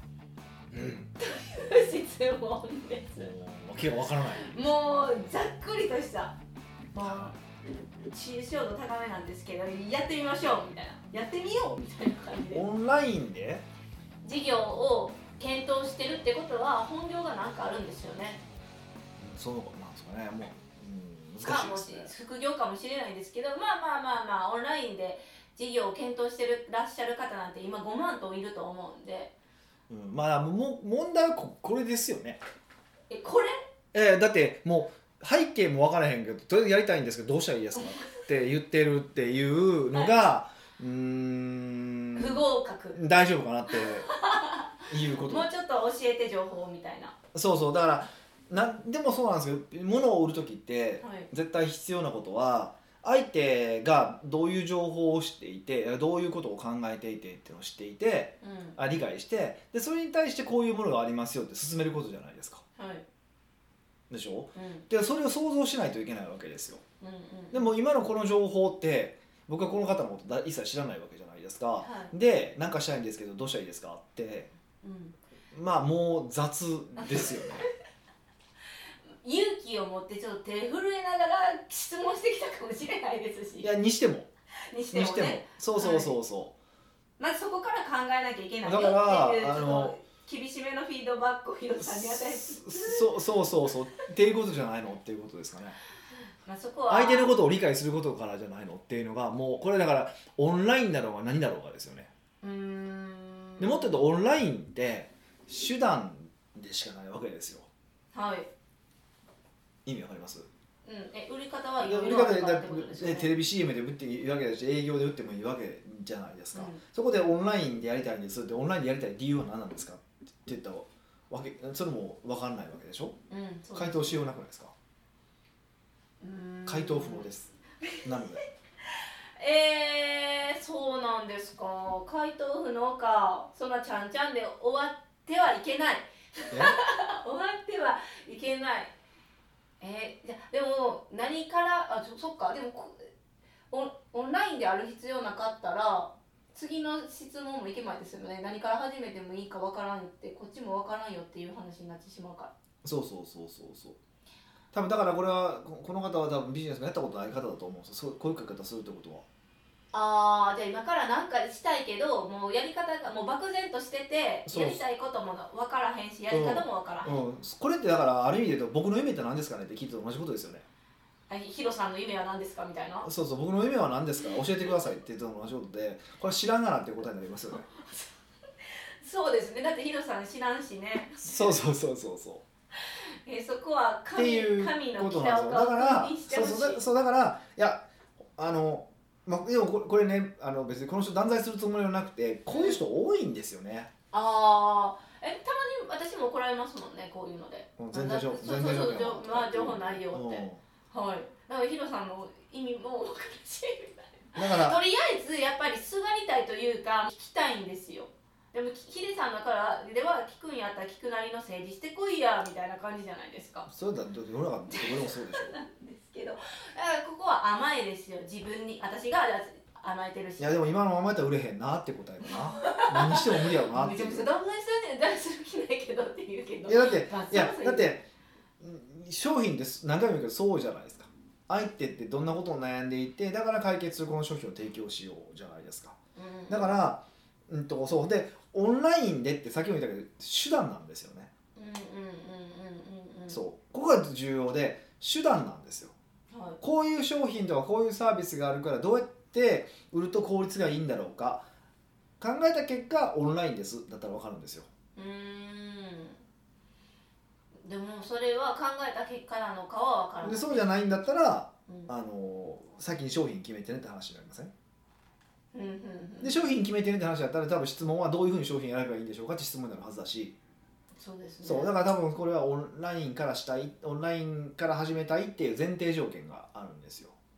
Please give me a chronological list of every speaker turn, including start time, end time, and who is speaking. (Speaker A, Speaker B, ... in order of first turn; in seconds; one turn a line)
Speaker A: 0.7-1.1
Speaker B: 1.1-3.3
Speaker A: 3.2-4.6
Speaker B: 4.4-6.4
Speaker B: 6.9-7.4
Speaker A: 7.0-7.3
Speaker B: 8.1-12.6
Speaker A: 12.5-13.6
Speaker B: 14.2-18.4
Speaker A: 19.2-22.1
Speaker B: 21.4-29.3
Speaker A: 29.9-32.4
Speaker B: 33.1-33.6
Speaker A: 33.9-42.4
Speaker B: 37.8-38.0
Speaker B: 39.9-40.2
Speaker B: 42.1-43.0
Speaker A: 42.9-44.1
Speaker B: 43.7-47.1
Speaker A: 44.9-45.5
Speaker A: 47.3-62.6
Speaker B: 51.0-51.3
Speaker B: 58.4-58.8
Speaker B: 62.8-63.0
Speaker A: 64.1-66.8
Speaker B: 64.5-64.9
Speaker B: 67.0-67.7
Speaker A: 67.5-74.5
Speaker B: 71.8-72.1
Speaker B: 74.8-75.2
Speaker A: 75.5-77.7
Speaker B: 77.0-77.6
Speaker B: 79.2-83.7
Speaker A: 83.6-84.3
Speaker B: 84.7-86.2
Speaker A: 84.9-86.5
Speaker B: 87.2-93.1
Speaker A: 88.6-90.0
Speaker A: 91.8-95.8
Speaker B: 96.4-97.3
Speaker A: 96.9-102.1
Speaker B: 102.4-103.9
Speaker A: 103.6-107.7
Speaker B: 108.1-108.5
Speaker A: 109.9-110.5
Speaker B: 110.8-113.3
Speaker A: 111.8-123.2
Speaker B: 116.5-116.8
Speaker B: 123.3-124.2
Speaker A: 123.7-124.7
Speaker B: 126.2-127.3
Speaker A: 126.7-128.4
Speaker B: 127.8-128.2
Speaker B: 128.9-138.9
Speaker A: 136.5-136.8
Speaker B: 139.8-143.1
Speaker B: 143.7-152.5
Speaker A: 152.8-154.0
Speaker A: 154.7-159.2
Speaker B: 159.9-167.1
Speaker A: 164.5-164.8
Speaker A: 166.3-170.7
Speaker B: 171.3-173.1
Speaker A: 173.0-177.7
Speaker B: 177.5-181.6
Speaker A: 181.2-182.4
Speaker B: 182.7-186.8
Speaker A: 184.1-187.9
Speaker A: 188.4-193.9
Speaker B: 192.5-192.8
Speaker B: 194.1-213.7
Speaker A: 197.8-200.6
Speaker A: 204.3-204.8
Speaker A: 213.7-215.6
Speaker B: 214.7-220.5
Speaker A: 220.4-224.3
Speaker B: 222.2-227.9
Speaker A: 226.7-228.1
Speaker A: 228.6-236.0
Speaker B: 236.2-236.7
Speaker A: 236.5-241.3
Speaker B: 241.6-243.4
Speaker A: 243.3-245.9
Speaker B: 246.3-246.6
Speaker A: 246.6-251.4
Speaker A: 252.2-254.7
Speaker B: 254.9-256.2
Speaker B: 257.6-260.6
Speaker A: 260.2-264.5
Speaker B: 265.5-266.4
Speaker A: 266.2-270.4
Speaker B: 270.9-271.7
Speaker A: 271.4-277.1